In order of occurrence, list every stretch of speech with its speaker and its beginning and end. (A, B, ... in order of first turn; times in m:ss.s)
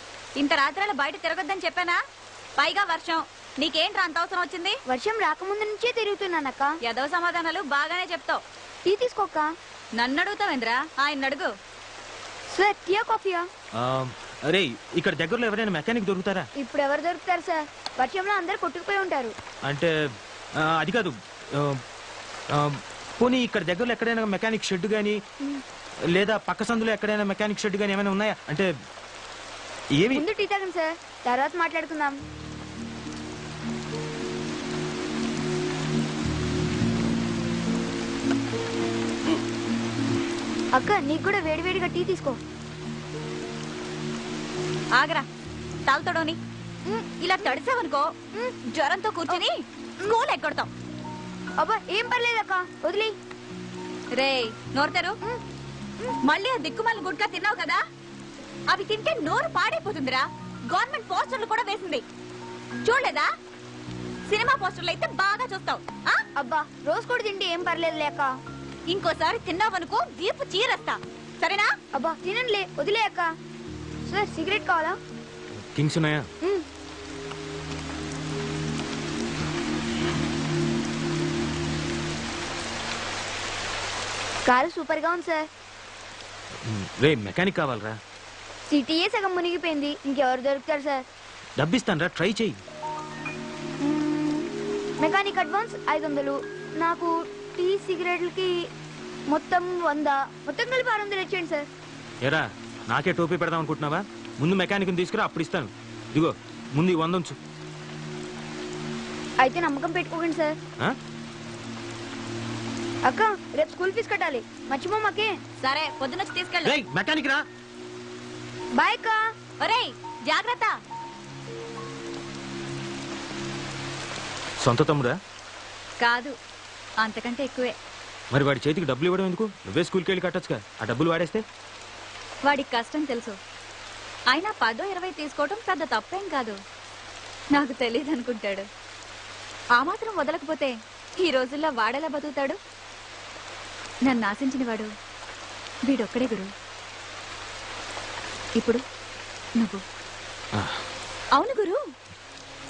0:00.4-0:02.0 A
0:02.6-0:04.8 A
0:04.9-0:06.7 B
0:06.8-0:08.4 A
0:08.9-0:09.5 B
0:10.0-0:11.5 A
0:12.5-0:13.5 B
0:13.8-0:16.5 C
0:16.6-0:19.3 B
0:19.6-0:19.9 C
0:20.6-0:21.8 C
0:22.5-0:25.2 C
0:26.1-0:28.7 C
0:30.0-0:30.3 C
0:30.1-0:32.2 B
0:40.7-0:42.4 B
0:45.0-0:45.3 A
0:45.9-0:46.4 A
0:47.2-0:48.1 A
0:48.6-0:50.7 A
0:51.6-0:53.1 B
0:54.2-0:55.2 A
0:56.2-0:57.8 A
0:58.7-1:02.0 A
1:02.8-1:03.3 A
1:04.3-1:06.2 A
1:06.4-1:08.3 B
1:08.9-1:11.7 A
1:11.9-1:13.3 B
1:14.1-1:15.0 B
1:15.7-1:16.3 C
1:24.5-1:25.5 B
1:26.6-1:28.0 C
1:28.7-1:31.0 B
1:31.6-1:32.6 C
1:33.8-1:38.5 B
1:39.3-1:41.7 B
1:42.2-1:47.4 C
1:49.4-1:50.6 B
1:53.0-1:55.4 B
1:55.6-1:56.8 A
1:56.6-1:57.4 C
1:58.8-1:59.2 B
1:59.6-2:00.8 A
2:04.6-2:05.2 C
2:06.0-2:06.4 A
2:07.0-2:07.8 A
2:08.3-2:11.4 C
2:12.5-2:13.4 A
2:14.3-2:16.6 A
2:17.5-2:18.7 A
2:19.8-2:22.6 A
2:24.0-2:24.9 A
2:25.9-2:26.5 A
2:30.5-2:30.8 C
2:31.4-2:31.8 A